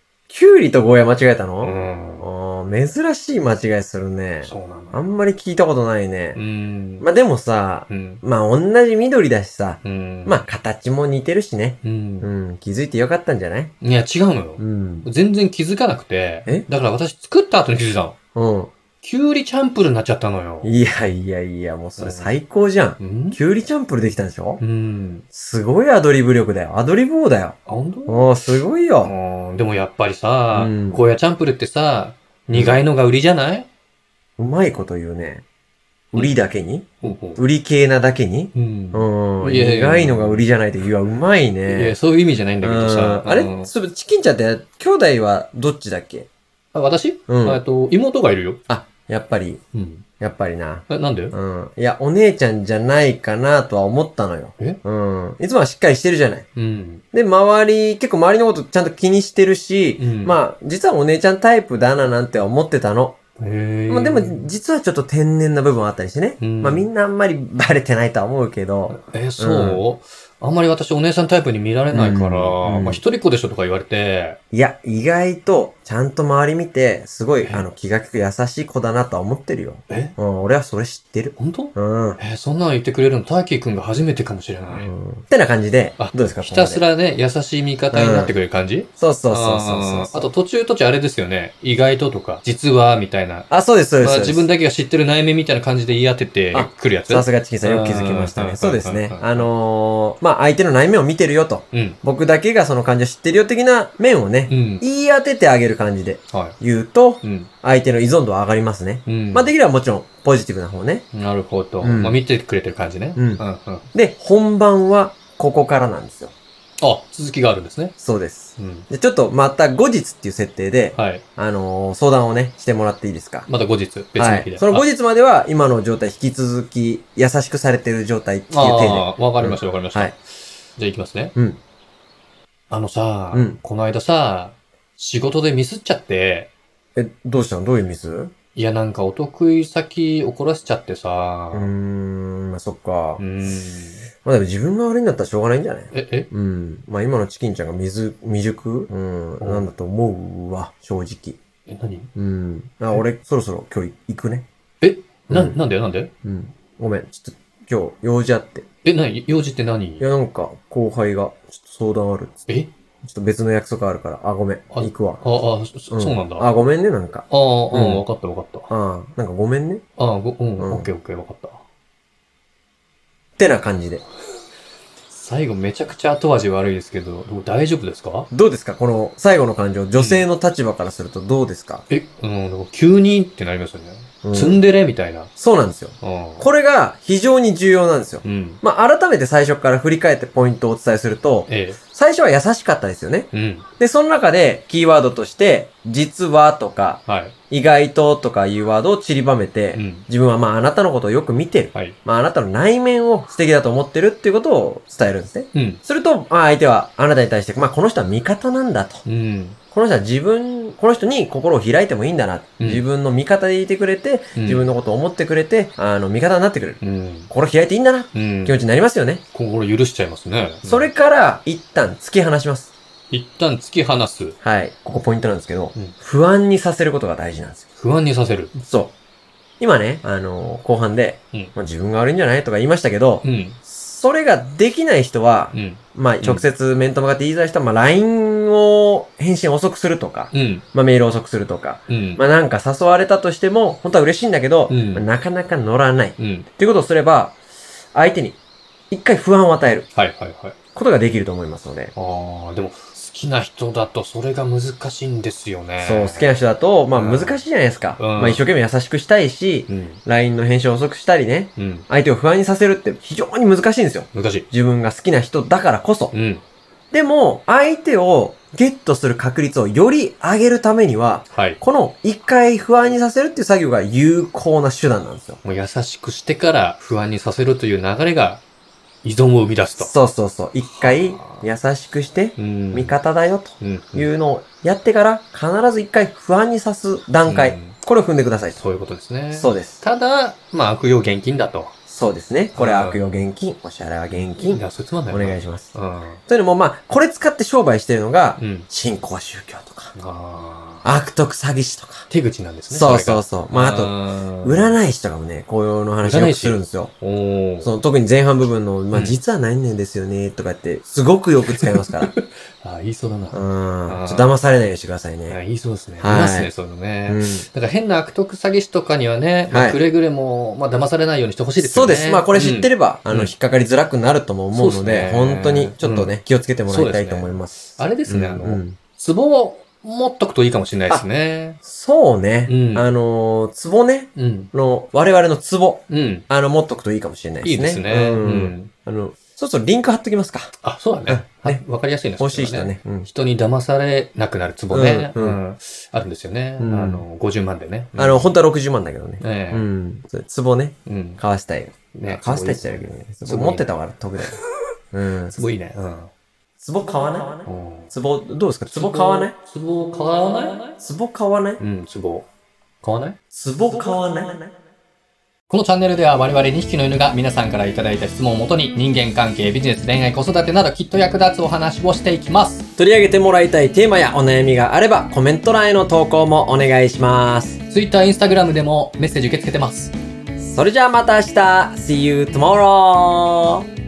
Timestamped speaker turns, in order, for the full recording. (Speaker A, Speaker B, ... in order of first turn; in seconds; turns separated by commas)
Speaker A: 0.3-6.4, Speaker B: 1.6-2.3, Speaker B: 4.4-5.0, Speaker B: 6.3-7.0, Speaker A: 7.0-13.7, Speaker B: 7.9-8.2, Speaker B: 9.8-10.4, Speaker B: 11.8-12.3, Speaker B: 13.8-18.2, Speaker A: 14.6-15.1, Speaker A: 18.4-18.7, Speaker B: 19.0-20.7, Speaker A: 20.6-24.6, Speaker B: 22.0-22.3, Speaker B: 23.0-23.4, Speaker B: 24.6-25.2, Speaker A: 25.3-29.1, Speaker B: 27.7-33.7, Speaker A: 30.5-31.1, Speaker A: 34.4-35.4, Speaker A: 36.1-42.0, Speaker B: 37.0-37.4, Speaker B: 38.5-40.5, Speaker B: 41.7-43.7, Speaker A: 42.6-46.3, Speaker B: 46.7-48.6, Speaker A: 47.3-47.6, Speaker A: 48.7-49.6, Speaker B: 49.7-50.0, Speaker A: 50.2-56.5, Speaker B: 50.9-51.4, Speaker B: 56.6-57.0, Speaker A: 57.1-63.2, Speaker B: 60.0-60.4, Speaker B: 63.4-64.5, Speaker A: 63.9-69.8, Speaker B: 66.4-66.9, Speaker B: 68.9-74.4, Speaker A: 71.9-73.0, Speaker A: 74.5-82.2, Speaker B: 77.4-77.7, Speaker B: 79.9-80.2, Speaker B: 81.4-84.9, Speaker A: 84.7-86.8, Speaker B: 86.0-93.5, Speaker A: 87.9-88.3, Speaker A: 89.0-90.3, Speaker A: 93.5-94.5, Speaker B: 94.0-99.5, Speaker A: 96.5-111.1, Speaker B: 101.7-102.0, Speaker B: 104.5-104.8, Speaker B: 107.2-107.5, Speaker B: 109.1-109.5, Speaker B: 111.1-113.9, Speaker A: 111.8-112.2, Speaker A: 113.9-116.3, Speaker B: 116.8-117.9, Speaker A: 118.0-123.5, Speaker B: 118.6-118.9, Speaker B: 121.0-121.2, Speaker B: 123.5-124.9, Speaker A: 124.2-130.1, Speaker B: 128.5-131.3, Speaker B: 132.7-136.5, Speaker A: 133.3-133.6, Speaker A: 137.0-138.3, Speaker B: 138.6-141.7, Speaker A: 141.5-143.2, Speaker B: 143.2-144.1, Speaker A: 144.2-151.4, Speaker B: 145.9-146.3, Speaker B: 149.4-149.7, Speaker B: 151.7-152.1, Speaker A: 152.2-154.5, Speaker B: 154.8-156.1, Speaker A: 155.3-155.6, Speaker A: 156.2-158.6, Speaker B: 158.8-160.1, Speaker A: 160.0-162.4, Speaker A: 163.0-165.2, Speaker B: 164.7-166.5, Speaker A: 165.9-168.0, Speaker B: 167.3-168.7, Speaker A: 168.7-169.8, Speaker B: 170.0-171.6, Speaker A: 170.6-170.9, Speaker A: 173.4-174.0, Speaker B: 175.1-178.3, Speaker A: 178.3-181.9, Speaker B: 179.9-180.3, Speaker B: 181.9-185.3, Speaker A: 184.2-184.6, Speaker A: 185.4-209.0, Speaker B: 186.0-186.5, Speaker B: 188.2-188.6, Speaker B: 191.5-191.8, Speaker B: 193.3-193.7, Speaker B: 197.1-197.3, Speaker B: 199.7-200.1, Speaker B: 205.5-205.8, Speaker B: 209.1-209.6, Speaker A: 209.7-219.2, Speaker B: 214.3-214.7, Speaker B: 216.8-217.3, Speaker B: 218.1-218.6, Speaker B: 219.3-220.9, Speaker A: 220.6-222.7, Speaker B: 223.1-224.4, Speaker A: 224.4-227.6, Speaker B: 227.8-228.6, Speaker A: 228.6-228.9, Speaker A: 229.6-247.4, Speaker B: 233.2-233.6, Speaker B: 235.5-236.4, Speaker B: 240.3-240.7, Speaker B: 241.9-242.2, Speaker B: 244.7-245.1, Speaker B: 246.2-246.5, Speaker A: 247.9-248.4, Speaker A: 248.9-249.9, Speaker B: 249.9-250.6, Speaker A: 250.8-251.9, Speaker B: 251.9-256.4, Speaker A: 255.8-266.1, Speaker B: 256.9-257.4, Speaker B: 258.0-258.4, Speaker B: 259.7-260.0, Speaker B: 261.6-261.9, Speaker B: 264.1-264.5, Speaker B: 266.1-266.4, Speaker A: 266.9-275.4, Speaker B: 271.3-271.6, Speaker B: 275.4-278.4, Speaker B: 279.0-279.9, Speaker A: 279.8-288.6, Speaker B: 280.7-281.4, Speaker B: 282.4-283.0, Speaker B: 283.6-284.1, Speaker B: 287.2-287.8, Speaker B: 288.5-291.8, Speaker A: 289.3-289.8, Speaker A: 291.9-295.7, Speaker B: 292.6-293.0, Speaker B: 294.4-296.2, Speaker A: 296.3-299.9, Speaker B: 298.4-298.7, Speaker B: 300.0-300.9, Speaker A: 300.8-302.1, Speaker B: 302.1-304.8, Speaker A: 302.7-306.9, Speaker B: 306.0-307.7, Speaker A: 307.6-312.1, Speaker B: 308.9-309.2, Speaker B: 311.5-314.3, Speaker A: 313.3-315.4, Speaker B: 315.3-323.3, Speaker A: 316.0-316.5, Speaker A: 317.1-317.5, Speaker A: 319.5-319.8, Speaker A: 321.6-328.8, Speaker B: 324.5-326.2, Speaker B: 326.7-331.6, Speaker A: 331.6-340.5, Speaker B: 332.5-332.9, Speaker B: 334.2-334.5, Speaker B: 335.9-336.3, Speaker B: 337.4-338.7, Speaker B: 340.6-348.3, Speaker A: 341.1-341.6, Speaker A: 342.2-343.1, Speaker A: 344.7-345.4, Speaker A: 346.6-347.1, Speaker A: 348.0-354.4, Speaker B: 349.2-349.7, Speaker B: 350.9-351.2, Speaker B: 351.9-353.7, Speaker A: 354.9-355.4, Speaker B: 355.3-356.1, Speaker A: 356.6-359.4, Speaker B: 357.5-357.9, Speaker B: 358.7-360.8, Speaker A: 360.8-361.6, Speaker B: 361.6-362.3, Speaker B: 362.8-363.2, Speaker A: 363.3-364.5, Speaker B: 365.5-372.7, Speaker A: 372.8-377.6, Speaker B: 377.7-379.9, Speaker A: 380.4-383.6